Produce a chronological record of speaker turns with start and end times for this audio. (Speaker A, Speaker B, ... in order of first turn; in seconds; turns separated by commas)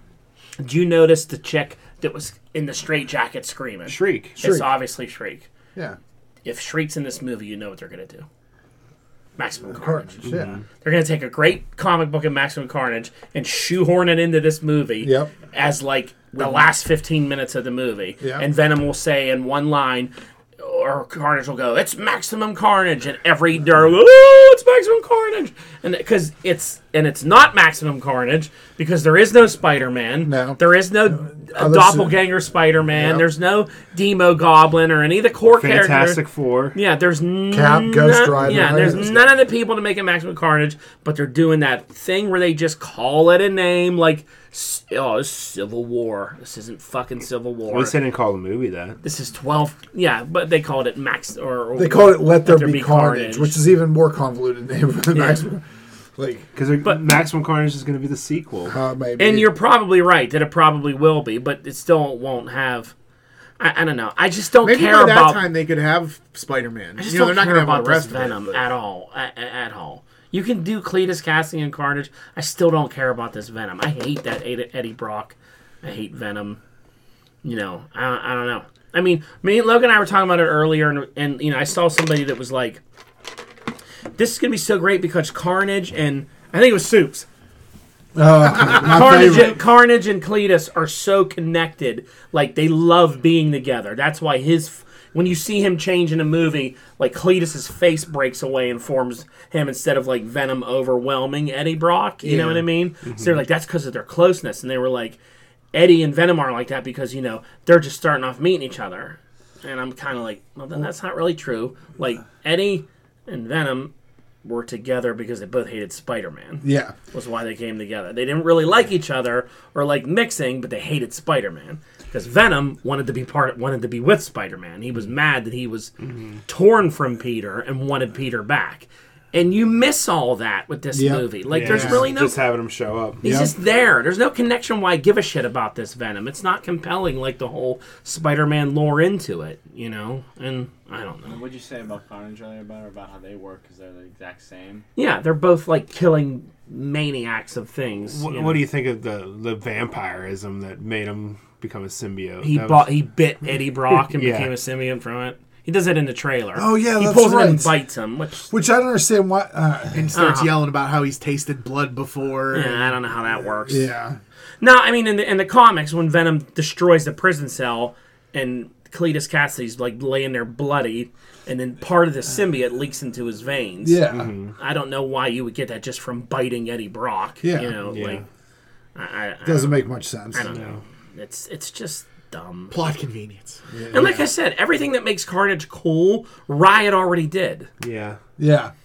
Speaker A: 0.6-5.5, Speaker B: 3.9-4.4, Speaker C: 4.4-4.7, Speaker A: 6.5-8.2, Speaker A: 9.4-36.2, Speaker C: 9.7-10.6, Speaker B: 10.3-10.6, Speaker C: 15.0-15.3, Speaker C: 18.2-18.5, Speaker C: 30.2-32.2, Speaker C: 33.0-33.2, Speaker B: 35.5-36.8, Speaker A: 36.7-48.0, Speaker C: 37.5-39.3, Speaker B: 38.4-38.8, Speaker B: 47.7-49.0, Speaker A: 49.0-53.5, Speaker C: 51.8-55.6, Speaker A: 55.1-55.4, Speaker C: 56.2-56.5, Speaker B: 56.5-58.8, Speaker C: 58.7-59.5, Speaker A: 59.2-62.9, Speaker A: 63.6-65.4, Speaker D: 64.6-68.7, Speaker A: 67.0-76.6, Speaker A: 77.4-82.8, Speaker A: 84.2-87.3, Speaker C: 88.2-89.6, Speaker A: 88.6-105.2, Speaker D: 102.2-102.6, Speaker B: 103.1-103.4, Speaker A: 105.7-113.9, Speaker A: 114.4-125.9, Speaker C: 116.6-117.0, Speaker B: 126.0-126.4, Speaker A: 126.5-132.4, Speaker C: 130.9-131.3, Speaker B: 131.5-133.2, Speaker D: 131.7-132.0, Speaker C: 133.2-133.5, Speaker A: 133.2-141.4, Speaker E: 141.3-144.8, Speaker A: 145.0-148.6, Speaker B: 148.1-152.9, Speaker A: 152.4-158.5, Speaker B: 154.1-154.5, Speaker C: 156.6-157.7, Speaker C: 158.5-160.2, Speaker D: 159.9-162.9, Speaker A: 160.1-160.5, Speaker A: 162.5-163.9, Speaker C: 163.7-164.2, Speaker A: 164.6-174.0, Speaker C: 173.8-174.3, Speaker B: 174.1-174.5, Speaker A: 174.6-178.2, Speaker C: 177.4-177.8, Speaker B: 177.8-178.2, Speaker A: 179.0-182.8, Speaker C: 179.4-180.5, Speaker B: 180.4-180.8, Speaker D: 182.7-183.6, Speaker C: 183.7-184.3, Speaker A: 183.9-187.7, Speaker B: 187.8-188.2, Speaker C: 188.4-188.7